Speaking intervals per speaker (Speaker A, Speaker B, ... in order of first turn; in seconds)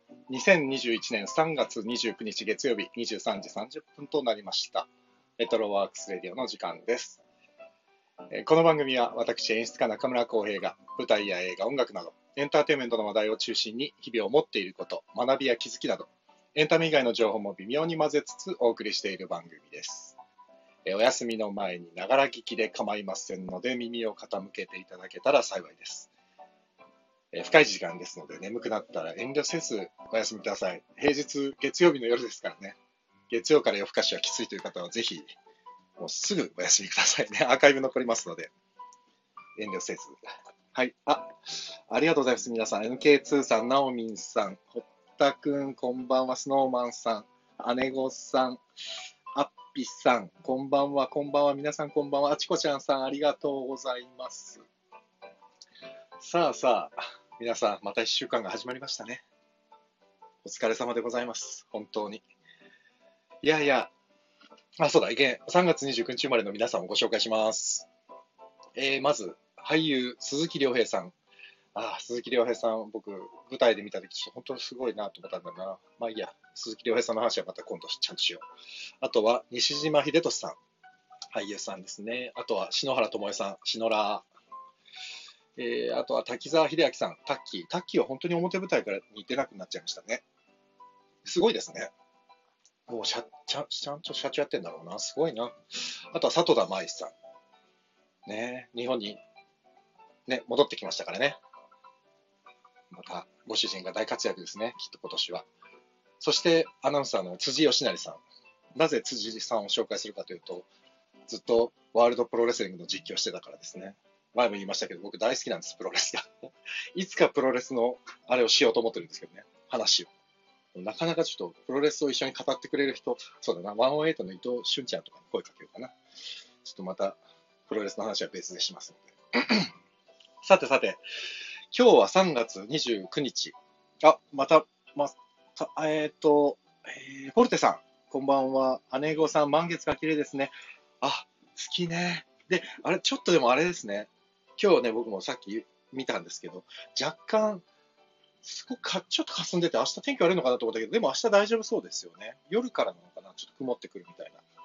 Speaker A: 0.3-7.2, 8.3-20.2, 20.9-26.1, 27.3-32.8, 33.3-35.3, 36.0-38.5, 39.6-40.2, 40.7-48.6, 49.3-54.6, 56.2-59.2, 60.4-62.2, 63.4-63.9, 64.8-67.9, 68.8-71.1, 71.8-78.5, 79.0-80.6, 81.3-84.3, 85.6-90.2, 91.2-91.9, 92.9-95.6, 96.1-97.1, 98.3-99.2, 100.3-101.4, 102.9-105.5, 106.2-108.2, 108.8-110.7, 111.3-120.1, 120.8-126.0, 126.6-129.7, 130.4-131.0, 131.7-147.7, 148.4-154.4